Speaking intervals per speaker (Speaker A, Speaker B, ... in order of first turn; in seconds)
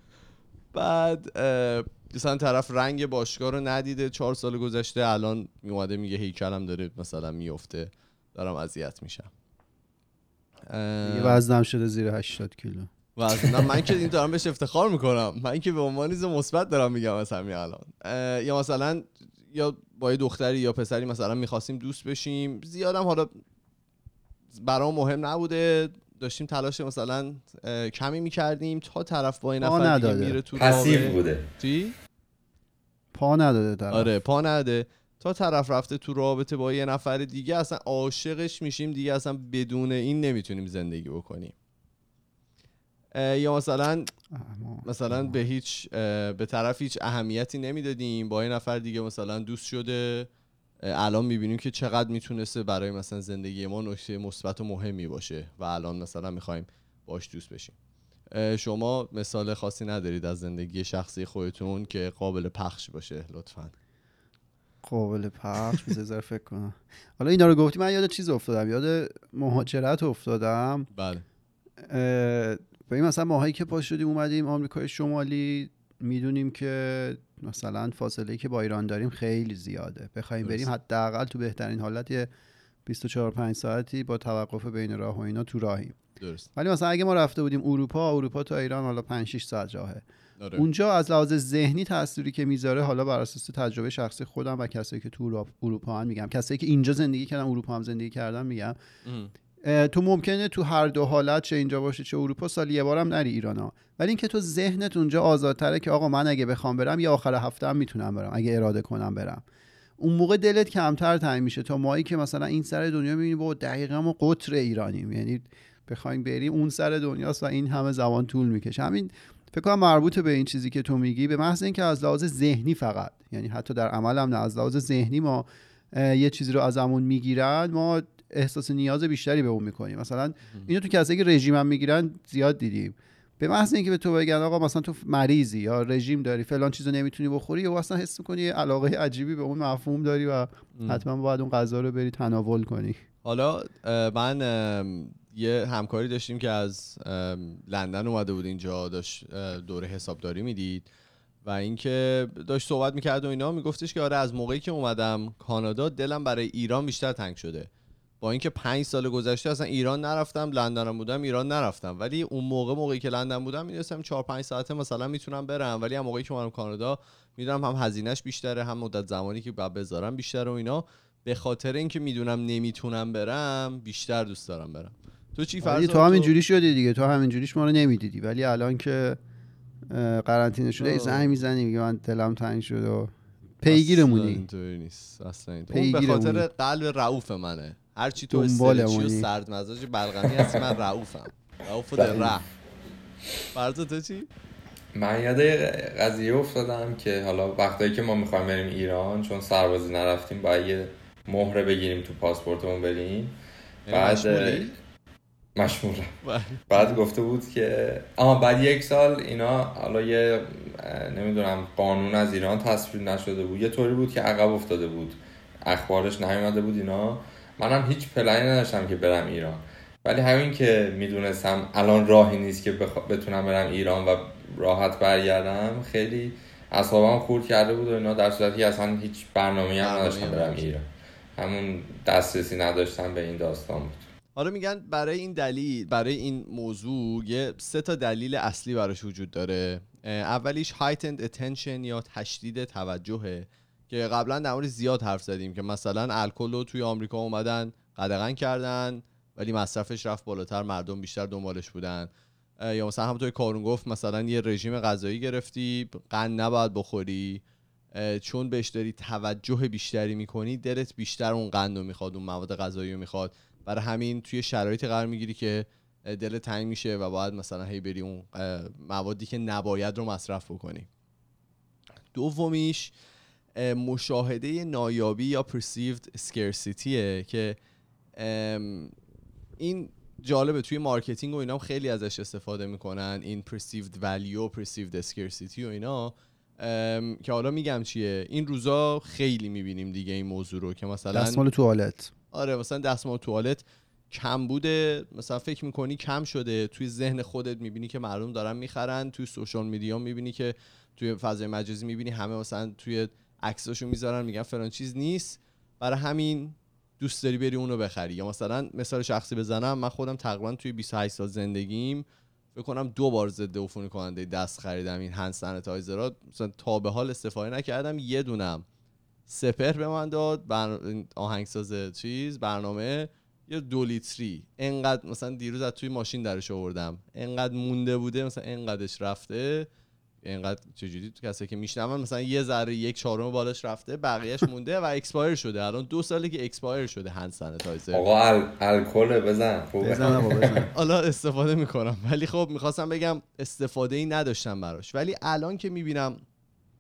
Speaker A: 0.7-9.3, 10.7-11.4, 13.2-23.4, 24.5-31.9, 33.9-41.5, 43.1-44.1, 44.8-50.3, 50.9-57.8, 58.3-63.7, 70.9-71.2, 80.4-80.7, 86.2-86.5, 90.4-90.7, 99.0-99.3, 140.8-141.0, 143.2-150.9, 151.4-157.7, 158.2-176.3, 180.8-181.3, 183.7-192.5, 193.5-194.3, 203.8-204.7, 206.2-206.9, 229.8-230.6, 234.3-252.1, 252.6-257.4, 257.9-270.9, 272.1-272.9, 273.6-277.6, 278.1-278.9, 279.6-291.4, 292.3-318.6, 319.3-329.7, 330.2-338.0, 340.0-346.2
Speaker B: 11.1-13.7, 29.6-30.4, 33.1-34.1, 44.3-45.4, 64.8-70.9, 71.8-82.3, 82.8-86.0, 86.5-90.0, 90.5-98.8, 99.6-109.4, 110.0-143.0, 175.6-179.2, 179.9-184.4, 185.7-186.5, 188.3-189.3, 191.9-192.3, 291.1-292.1, 339.8-340.7
Speaker C: 30.5-31.5, 194.9-203.3, 203.9-204.7, 205.6-206.1, 206.7-234.0, 337.9-340.6